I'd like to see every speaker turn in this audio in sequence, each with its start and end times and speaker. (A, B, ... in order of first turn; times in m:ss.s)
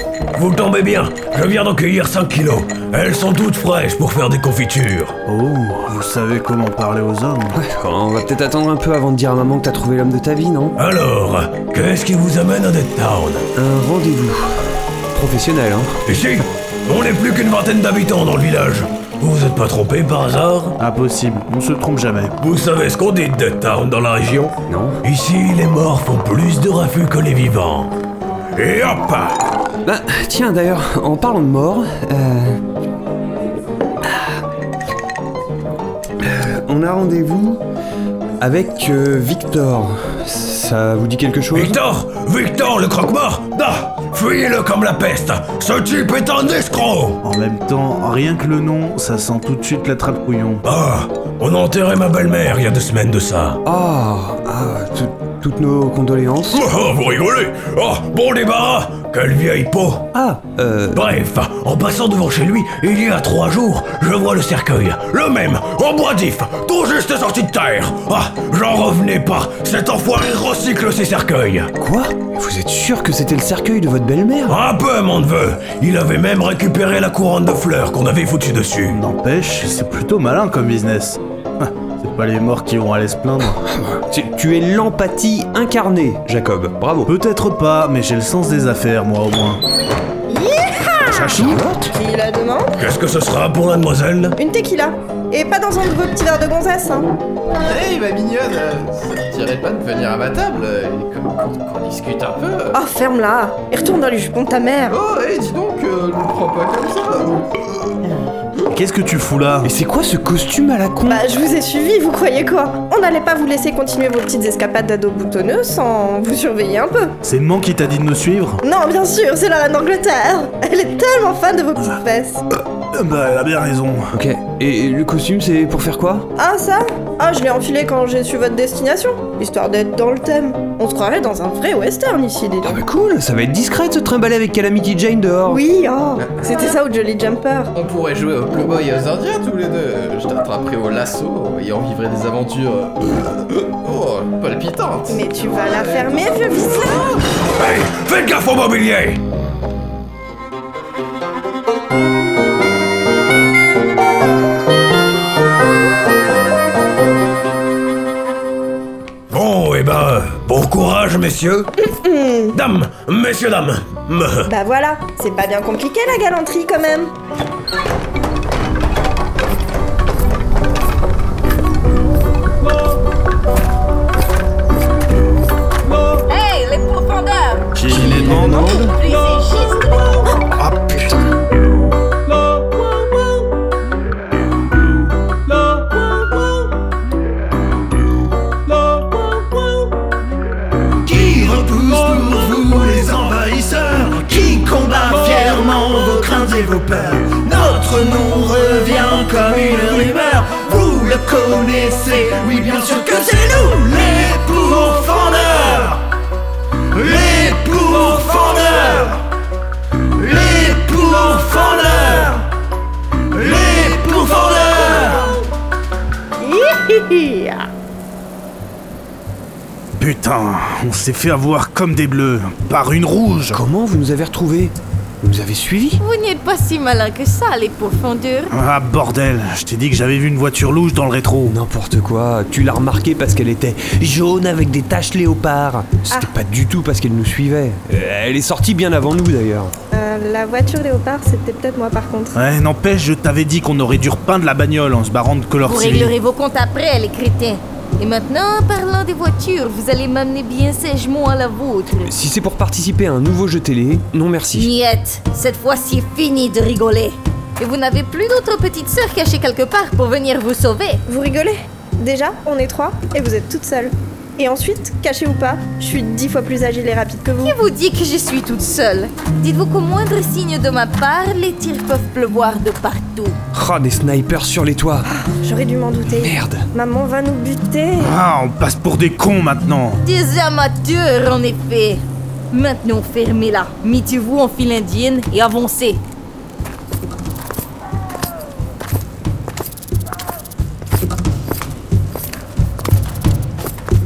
0:00.4-0:05.2 A
0:05.3-0:07.6 B
0:07.5-0:10.8 C
0:10.8-0:13.5 A
0:13.6-0:16.0 C
0:16.0-0:20.8 A
0:20.8-0:22.3 B
0:22.4-0:27.9 A
0:24.7-0:25.0 C
0:28.6-0:29.4 A
0:29.8-0:32.6 C
0:34.0-0:34.4 C
0:36.2-0:37.6 C
0:38.4-0:41.8 C
0:41.5-0:47.2 A
0:47.2-0:50.6 B
0:50.6-0:53.6 A
0:53.6-0:56.6 C
0:56.5-1:00.1 A
1:00.1-1:01.0 C
1:00.9-1:11.7 A
1:11.8-1:14.6 C
1:14.5-1:19.0 A
1:18.9-1:23.6 B
1:23.4-1:27.1 C
1:27.1-1:29.6 B
1:30.3-1:31.4 D
1:31.1-1:31.6 B
1:31.3-1:31.9 C
1:31.9-1:32.7 D
1:32.8-1:34.4 A
1:34.4-1:37.1 D
1:37.6-1:42.8 E
1:42.7-1:45.0 D
1:44.9-1:47.5 E
1:48.7-1:49.7 B
1:49.6-1:51.2 C
1:51.1-1:57.2 D
1:57.2-1:58.6 B
1:58.6-2:02.4 D
2:02.9-2:04.1 B
2:04.1-2:06.3 C
2:06.4-2:12.8 D
2:12.6-2:15.6 C
2:15.5-2:17.7 D
2:17.8-2:27.0 E
2:25.1-2:27.1 D
2:27.5-2:29.2 A
2:39.3-2:41.7 A
2:41.9-2:42.6 D
2:42.5-2:44.5 A
2:44.5-2:47.1 D
2:56.3-3:00.5 F
2:57.8-2:58.9 B
2:58.3-2:58.8 C
3:00.6-3:01.0 B
3:05.6-3:05.8 G
3:11.0-3:26.1 G
3:26.9-3:29.2 G
3:30.2-3:32.5 G
3:33.3-3:35.3 G
3:36.4-3:37.7 D
3:40.0-3:43.6 B
3:43.5-3:46.0 C
3:46.0-3:48.5 F
3:48.5-3:51.6 B
3:51.5-3:59.7 C
3:59.9-4:02.4 D
4:02.3-4:06.1 B
4:05.6-4:12.1 F
4:12.0-4:14.7 C
4:14.6-4:21.0 F
4:21.1-4:27.6 D
4:27.4-4:33.4 F
4:33.5-4:35.1 C
4:35.1-4:38.1 D
4:36.1-4:36.7 C
4:38.0-4:40.0 B
4:40.0-4:46.0 F